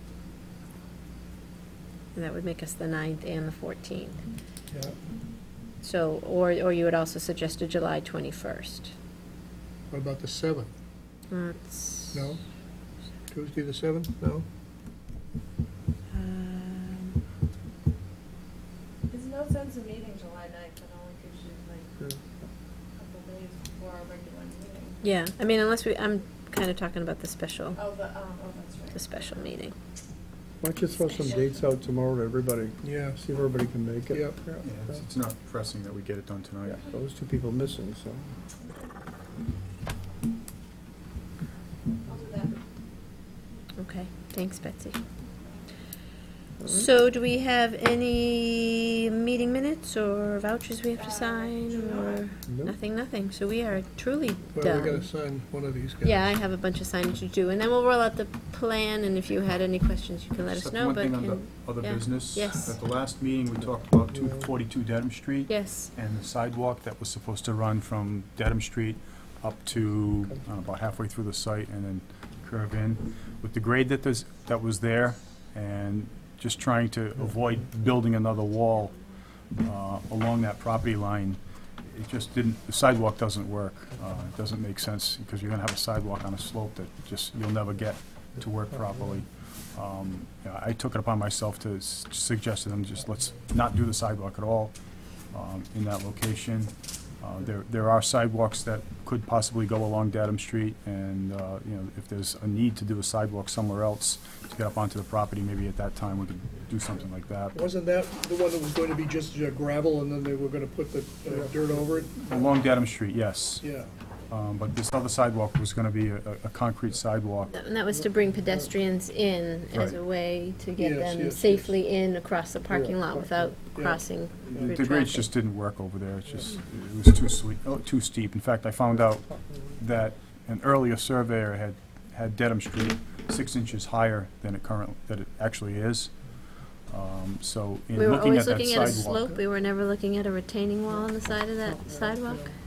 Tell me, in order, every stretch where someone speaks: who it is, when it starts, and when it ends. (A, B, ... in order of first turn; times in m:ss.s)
0:02.1-0:04.2 A
0:04.7-0:05.0 B
0:05.8-0:08.9 A
0:09.9-0:10.7 B
0:11.3-0:12.2 A
0:12.1-0:12.4 B
0:13.3-0:14.4 B
0:16.1-0:17.2 A
0:19.1-0:21.9 C
0:23.0-0:25.0 C
0:25.0-0:27.8 A
0:27.7-0:29.2 C
0:28.9-0:29.7 A
0:30.6-0:35.0 D
0:31.2-0:31.6 C
0:32.8-0:33.2 B
0:34.1-0:34.4 B
0:34.6-0:36.8 E
0:36.6-0:38.3 D
0:38.6-0:38.9 C
0:42.0-0:42.6 C
0:43.8-0:45.0 A
0:46.6-0:46.9 D
0:46.6-0:55.0 A
0:50.9-0:52.2 C
0:52.5-0:52.7 D
0:54.5-0:56.2 B
0:56.0-1:02.8 A
1:00.4-1:19.0 E
1:04.1-1:04.5 D
1:05.5-1:05.9 A
1:19.6-1:34.8 E
1:35.3-1:47.5 E
1:47.5-1:52.6 B
1:51.3-1:52.0 D
1:52.3-1:57.5 E
1:53.6-1:53.9 B
1:57.5-2:05.3 A
1:57.9-1:58.7 D
1:59.7-2:00.0 E
2:00.8-2:01.8 B
2:02.7-2:03.5 D
2:03.7-2:04.0 B
2:04.5-2:16.1 E
2:08.9-2:09.8 D
2:16.9-2:19.3 E
2:17.9-2:22.6 A
2:20.9-2:22.5 D